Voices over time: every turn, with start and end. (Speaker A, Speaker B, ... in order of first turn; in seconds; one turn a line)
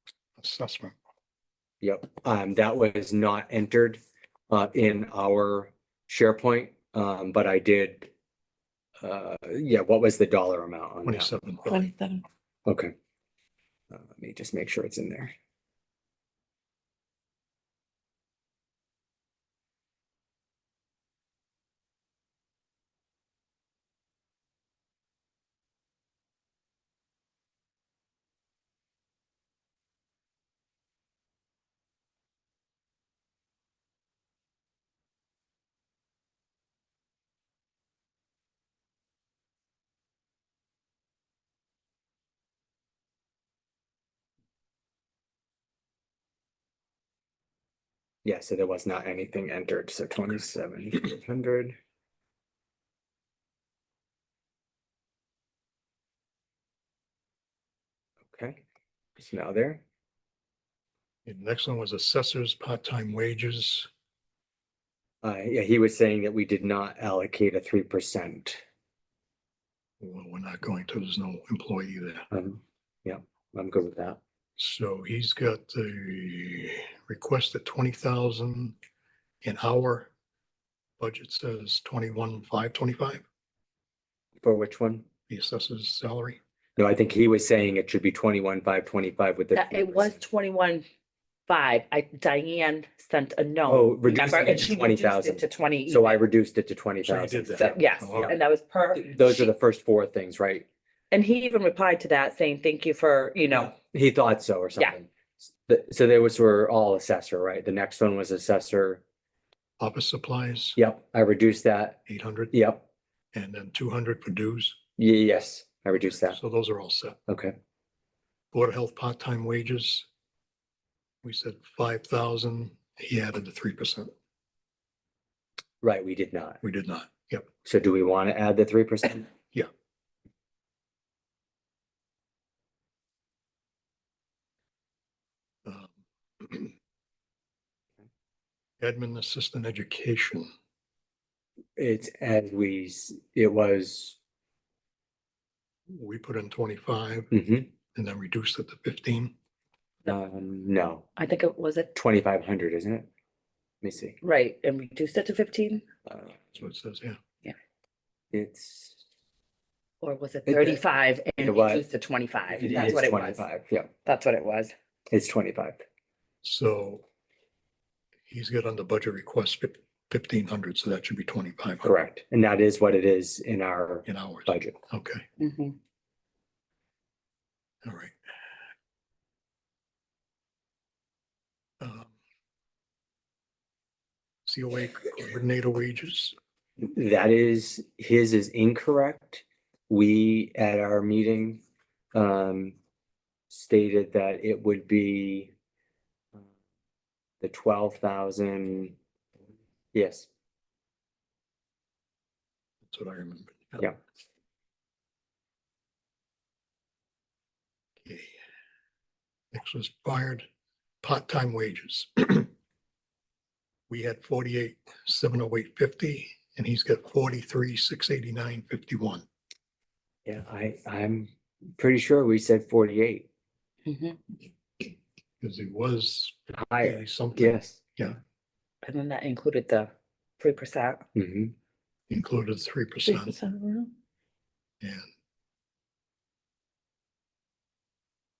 Speaker A: 0.4-0.9
Speaker B: 1.8-8.1
Speaker B: 9.0-11.3
Speaker A: 11.1-12.0
Speaker C: 11.7-12.2
Speaker B: 12.7-12.9
Speaker B: 13.9-15.3
Speaker B: 48.2-51.8
Speaker B: 58.3-58.6
Speaker B: 59.2-59.8
Speaker A: 61.3-63.9
Speaker B: 65.2-68.6
Speaker A: 70.0-72.3
Speaker B: 72.3-74.2
Speaker A: 74.6-78.8
Speaker A: 79.4-80.1
Speaker A: 81.0-83.2
Speaker B: 84.4-85.1
Speaker A: 85.3-86.4
Speaker B: 86.8-90.2
Speaker C: 89.5-90.8
Speaker C: 91.5-96.2
Speaker B: 93.7-98.4
Speaker A: 97.1-98.3
Speaker C: 97.6-99.5
Speaker B: 98.9-100.7
Speaker C: 101.1-103.8
Speaker B: 103.9-109.0
Speaker A: 109.8-110.8
Speaker B: 110.8-112.0
Speaker A: 112.1-112.5
Speaker B: 112.5-112.8
Speaker A: 113.3-114.8
Speaker B: 115.0-116.4
Speaker A: 116.1-117.2
Speaker B: 117.3-117.5
Speaker A: 118.5-120.1
Speaker A: 121.2-124.1
Speaker B: 125.8-126.6
Speaker A: 126.6-127.5
Speaker B: 127.6-129.3
Speaker A: 135.7-136.7
Speaker A: 138.8-140.5
Speaker B: 141.8-144.2
Speaker A: 145.9-147.3
Speaker B: 147.3-147.7
Speaker A: 147.9-149.3
Speaker B: 150.1-151.1
Speaker C: 151.2-151.9
Speaker B: 151.9-153.1
Speaker B: 153.8-154.2
Speaker C: 154.2-155.8
Speaker B: 156.1-156.4
Speaker A: 156.5-157.2
Speaker B: 158.3-159.0
Speaker C: 160.0-163.5
Speaker B: 160.5-160.8
Speaker B: 161.4-161.8
Speaker B: 162.5-163.9
Speaker C: 164.1-164.7
Speaker B: 165.1-165.8
Speaker A: 166.4-167.0
Speaker A: 168.3-171.9
Speaker B: 171.8-174.8
Speaker A: 174.1-175.2
Speaker C: 175.4-175.8
Speaker A: 177.8-178.1
Speaker A: 181.8-182.1
Speaker A: 184.5-186.3
Speaker B: 186.8-191.6
Speaker B: 192.1-192.8
Speaker B: 193.5-195.5
Speaker B: 197.4-198.9
Speaker B: 199.9-200.3
Speaker A: 202.9-203.9
Speaker A: 208.0-208.3
Speaker A: 209.5-210.5
Speaker A: 211.0-212.5
Speaker A: 213.9-219.2
Speaker B: 220.2-223.3
Speaker C: 223.9-224.4
Speaker A: 225.4-228.2
Speaker B: 226.5-227.8
Speaker C: 228.8-231.0
Speaker B: 231.2-231.6
Speaker A: 232.1-233.3
Speaker C: 233.1-233.9
Speaker A: 234.8-235.1